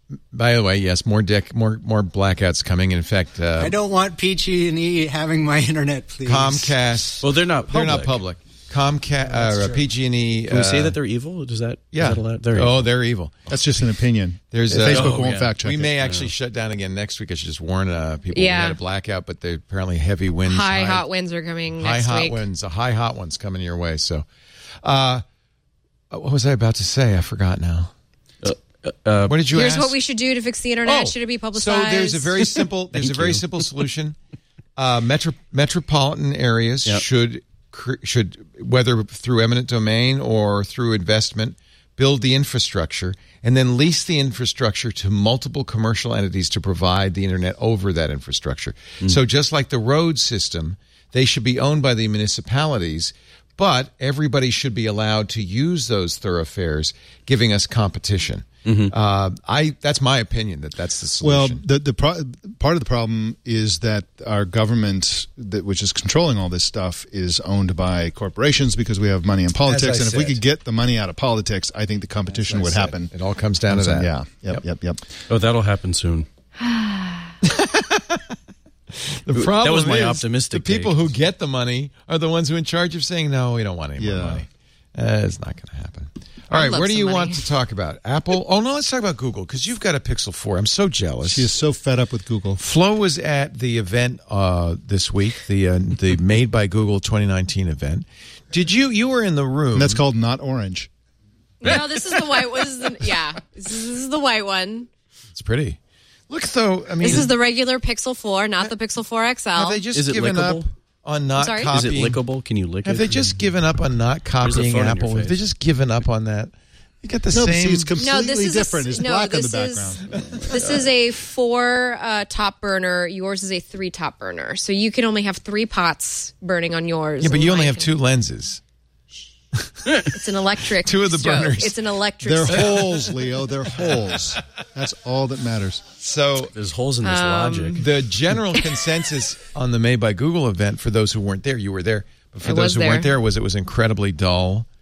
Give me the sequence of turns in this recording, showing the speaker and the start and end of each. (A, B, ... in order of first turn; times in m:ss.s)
0:00.3-0:03.8 A
0:03.6-0:06.7 B
0:06.2-0:11.0 A
0:07.2-0:08.2 C
0:09.3-0:09.8 B
0:10.5-0:12.9 C
0:11.9-0:13.5 A
0:13.5-0:16.0 D
0:14.5-0:21.0 A
0:14.9-0:15.5 C
0:16.0-0:16.3 C
0:18.3-0:18.8 E
0:20.4-0:22.4 E
0:21.8-0:24.2 A
0:24.8-0:25.2 A
0:26.1-0:27.9 A
0:28.4-0:29.4 C
0:29.2-0:30.0 A
0:29.5-0:32.4 E
0:30.8-0:34.2 A
0:32.9-0:33.6 C
0:34.8-1:01.6 A
0:58.6-0:58.9 C
1:01.2-1:13.1 D
1:09.6-1:10.4 A
1:12.3-1:14.6 A
1:13.7-1:15.0 D
1:15.3-1:16.3 C
1:16.6-1:17.3 E
1:17.4-1:18.3 A
1:18.9-1:31.5 A
1:19.3-1:20.9 C
1:24.0-1:24.4 D
1:26.5-1:27.4 E
1:31.2-1:32.6 D
1:32.6-1:40.0 A
1:39.7-1:40.9 D
1:41.6-1:44.9 E
1:45.3-1:47.3 A
1:47.0-1:49.8 E
1:49.5-1:52.2 A
1:49.9-1:50.6 C
1:51.4-1:51.7 E
1:51.7-1:53.3 C
1:52.8-1:57.9 A
1:54.4-1:55.4 C
1:57.3-2:00.7 D
1:58.0-2:07.9 E
2:07.2-2:08.6 A
2:09.5-2:10.1 A
2:10.1-2:12.9 E
2:10.8-2:11.8 A
2:12.2-2:15.8 D
2:16.0-2:16.5 A
2:16.5-2:17.8 C
2:17.0-2:17.8 E
2:17.8-2:24.6 A
2:22.4-2:23.1 E